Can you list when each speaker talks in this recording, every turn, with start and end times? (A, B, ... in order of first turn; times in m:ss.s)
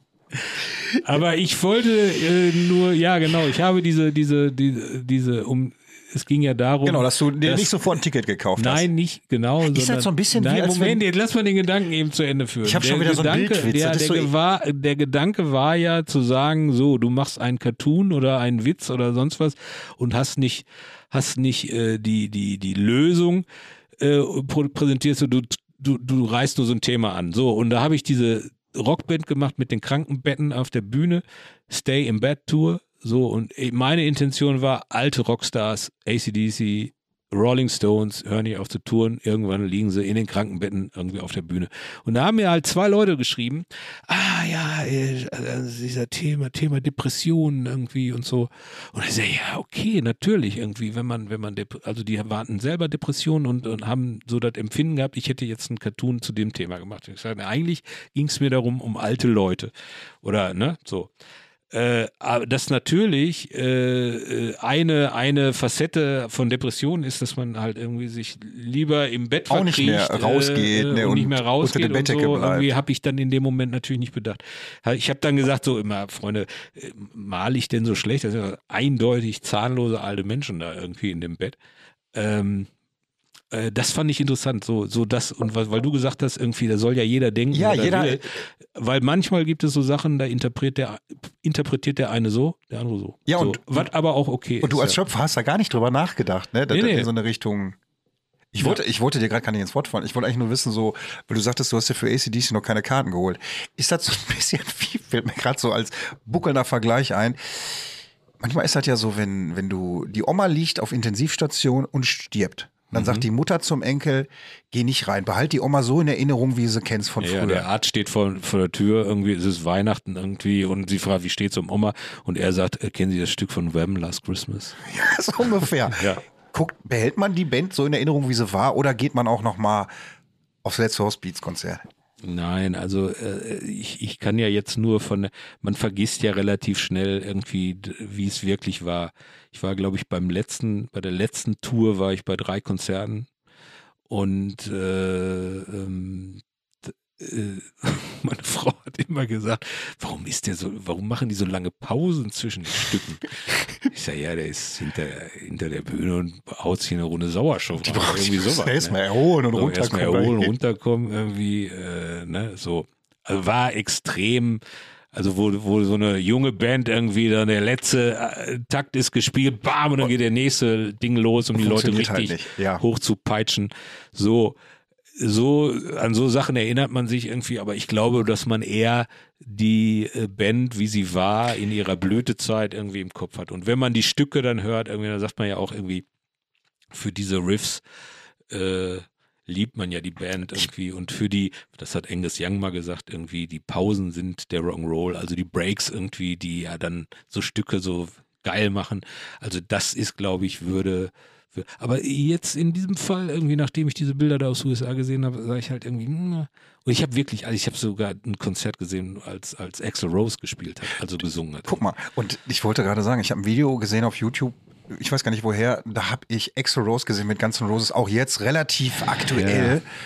0:00.4-0:07.7 A
0:06.8-0:08.9 B
0:08.6-0:23.4 A
0:09.6-0:11.0 B
0:12.6-0:14.3 B
0:24.0-0:59.7 A
1:00.2-1:01.1 A
1:01.7-1:21.6 A
1:09.5-1:12.7 B
1:22.1-1:22.7 A
1:23.5-1:35.0 A
1:27.5-1:28.4 B
1:33.3-1:33.9 B
1:34.6-1:37.8 B
1:36.7-1:37.1 A
1:38.5-1:57.7 B
1:52.9-1:53.2 A
1:57.2-2:04.8 A
2:04.8-2:09.9 B
2:05.9-2:06.2 A
2:10.6-2:11.8 B
2:12.2-2:23.3 A
2:24.1-2:33.3 A
2:33.8-2:39.0 A
2:37.8-2:40.5 B
2:39.5-2:44.6 A
2:45.1-2:54.6 A
2:51.6-2:52.8 B
2:55.2-3:06.0 A
3:06.9-3:07.8 A
3:08.5-3:31.8 A
3:31.7-3:39.8 B
3:39.3-3:39.8 A